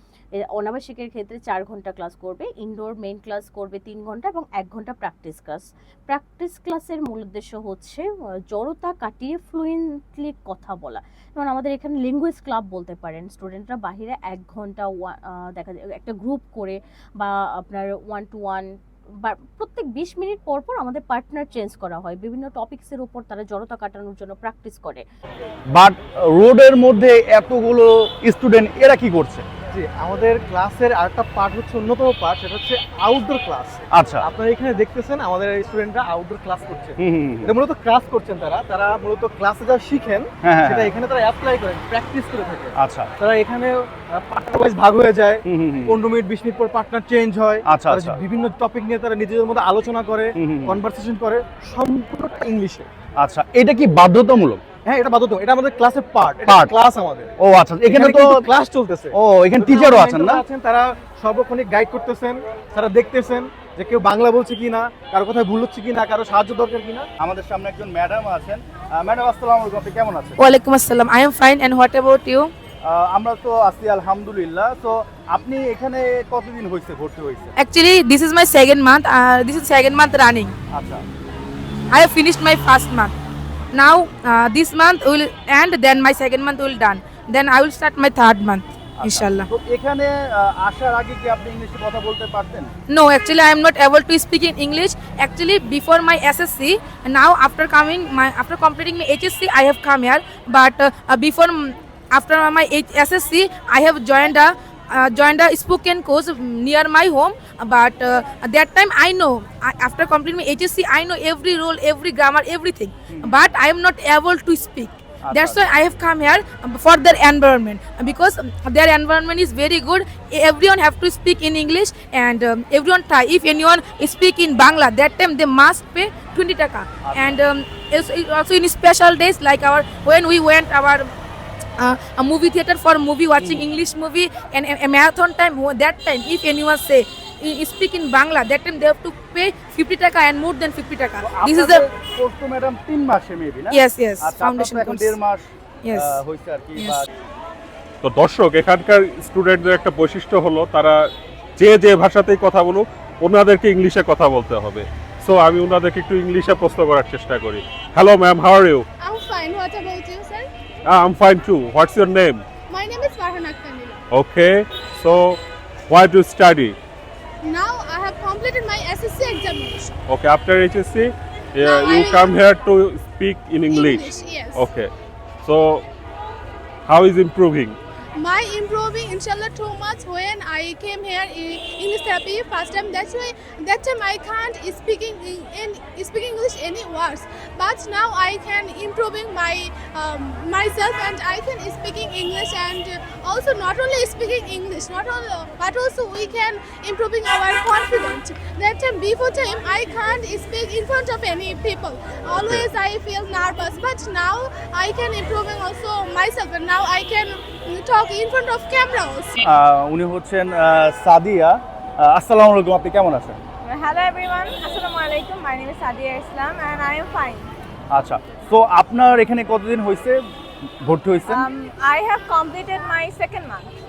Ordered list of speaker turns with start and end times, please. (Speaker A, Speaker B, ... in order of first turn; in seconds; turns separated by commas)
Speaker A: 0.3-25.0, Speaker B: 25.7-29.4, Speaker C: 29.7-52.9, Speaker B: 33.9-34.2, Speaker B: 37.0-37.5, Speaker B: 40.4-40.9, Speaker B: 42.8-43.1, Speaker B: 45.5-46.0, Speaker B: 47.6-48.2, Speaker B: 50.4-50.8, Speaker B: 53.2-54.6, Speaker C: 54.8-57.3, Speaker B: 56.4-56.7, Speaker B: 57.4-58.5, Speaker C: 57.9-67.1, Speaker B: 59.1-60.4, Speaker B: 67.2-70.4, Speaker D: 70.4-72.5, Speaker B: 72.8-77.5, Speaker D: 77.6-80.5, Speaker B: 80.7-81.0, Speaker D: 81.9-83.1, Speaker D: 83.7-89.5, Speaker B: 89.0-92.7, Speaker D: 92.9-131.1, Speaker B: 113.1-113.3, Speaker B: 115.2-115.6, Speaker B: 127.0-127.4, Speaker D: 131.8-141.8, Speaker B: 133.4-133.7, Speaker B: 141.2-147.1, Speaker D: 143.7-145.2, Speaker D: 145.8-146.2, Speaker D: 146.8-147.0, Speaker E: 148.0-158.9, Speaker F: 159.0-160.5, Speaker E: 160.8-162.4, Speaker F: 162.7-164.0, Speaker E: 164.1-166.8, Speaker F: 167.4-169.9, Speaker E: 170.1-174.9, Speaker F: 171.6-172.4, Speaker F: 173.7-174.7, Speaker E: 175.4-175.8, Speaker E: 176.8-177.8, Speaker F: 178.2-209.4, Speaker E: 202.4-202.7, Speaker B: 209.4-213.4, Speaker G: 213.6-217.5, Speaker B: 217.9-220.2, Speaker B: 220.8-221.5, Speaker G: 221.3-223.7